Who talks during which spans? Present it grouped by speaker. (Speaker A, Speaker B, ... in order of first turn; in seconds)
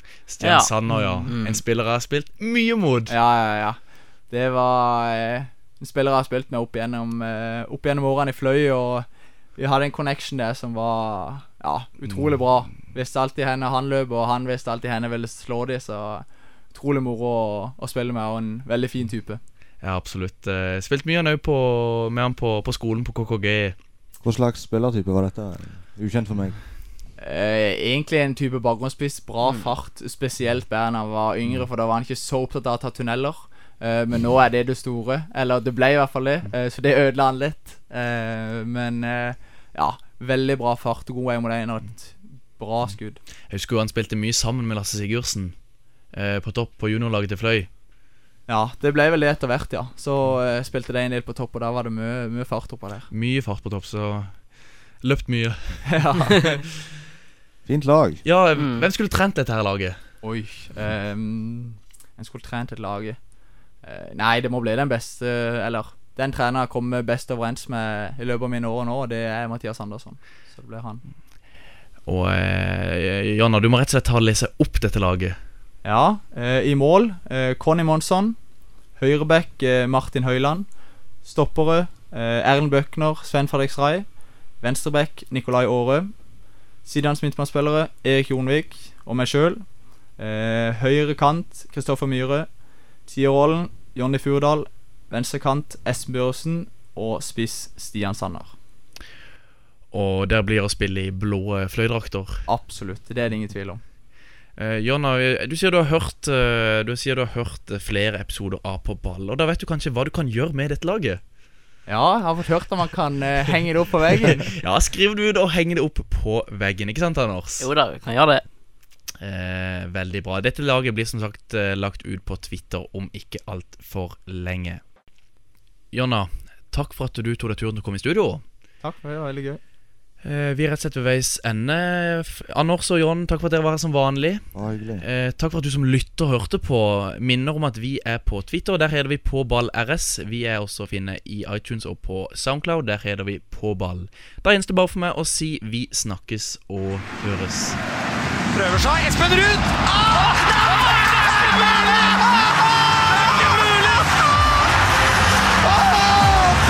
Speaker A: 0.3-3.1, 19.8-23.8, 43.5-45.6, 46.1-47.7, 53.1-56.4, 58.2-60.0, 72.0-75.3, 99.9-102.4, 104.5-111.2, 114.5-117.7, 119.2-124.8, 125.9-128.4, 130.2-147.8
Speaker B: 0.4-1.6, 58.5-58.9, 117.6-118.4
Speaker C: 0.9-1.3, 3.1-19.4, 27.2-43.2, 48.5-53.1, 55.9-56.5, 60.2-63.2, 63.8-71.0, 75.8-78.4, 79.0-86.1, 86.8-92.5, 93.0-98.5, 102.5-103.8, 111.9-114.5, 128.8-129.6
Speaker D: 24.2-26.6, 57.6-58.2, 134.5-135.0
Speaker E: 148.6-149.7, 150.9-152.2, 153.2-154.0, 156.0-156.2